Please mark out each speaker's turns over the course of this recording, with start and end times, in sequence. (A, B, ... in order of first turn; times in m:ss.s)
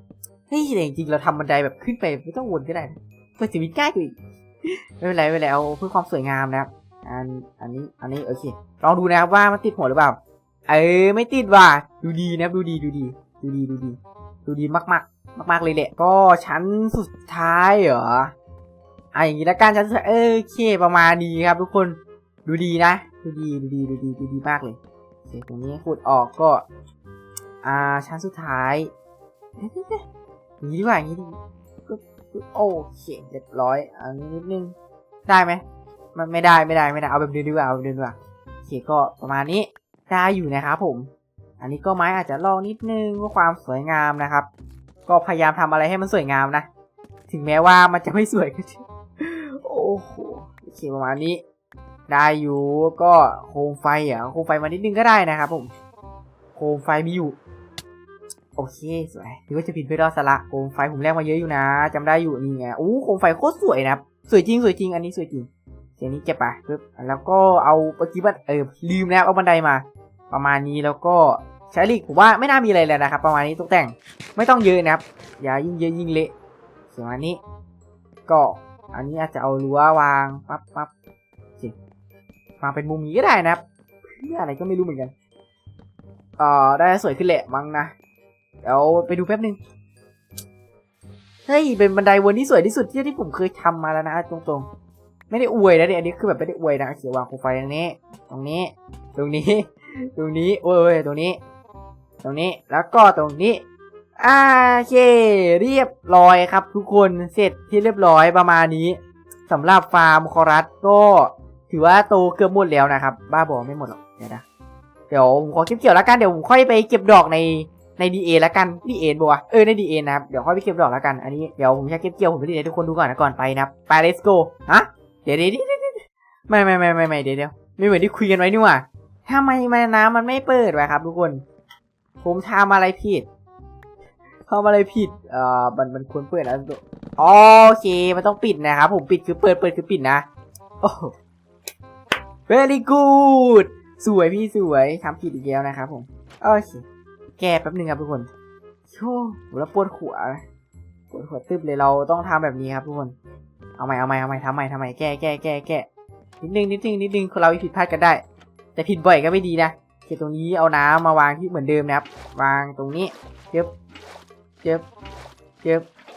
0:00.5-0:18.3 A
0:19.1-0:26.6 A
0:27.6-0:28.9 A
0:29.6-0:30.0 A
0:30.6-0:31.4 A
0:31.9-0:34.7 A
0:35.3-0:35.6 A
0:36.1-0:41.1 A
0:41.6-0:44.5 A
0:45.1-0:46.6 A
0:47.3-0:51.4 A
0:52.1-0:55.7 A
0:56.6-0:57.4 A
0:58.6-1:16.3 A
1:16.9-1:17.4 A
1:18.3-1:20.9 A
1:22.6-1:25.1 A
1:26.4-1:27.9 A
1:28.6-1:29.6 A
1:31.5-1:34.7 A
1:35.3-1:41.4 A
1:42.2-1:43.6 A
1:44.2-1:54.4 A
1:55.1-2:11.4 A
2:12.2-2:13.3 A
2:14.5-2:20.2 A
2:20.8-2:21.1 A
2:22.5-2:26.8 A
2:27.4-2:28.3 A
2:28.9-2:30.4 A
2:31.1-2:33.1 A
2:33.8-2:35.9 A
2:36.4-2:38.2 A
2:38.8-2:43.7 A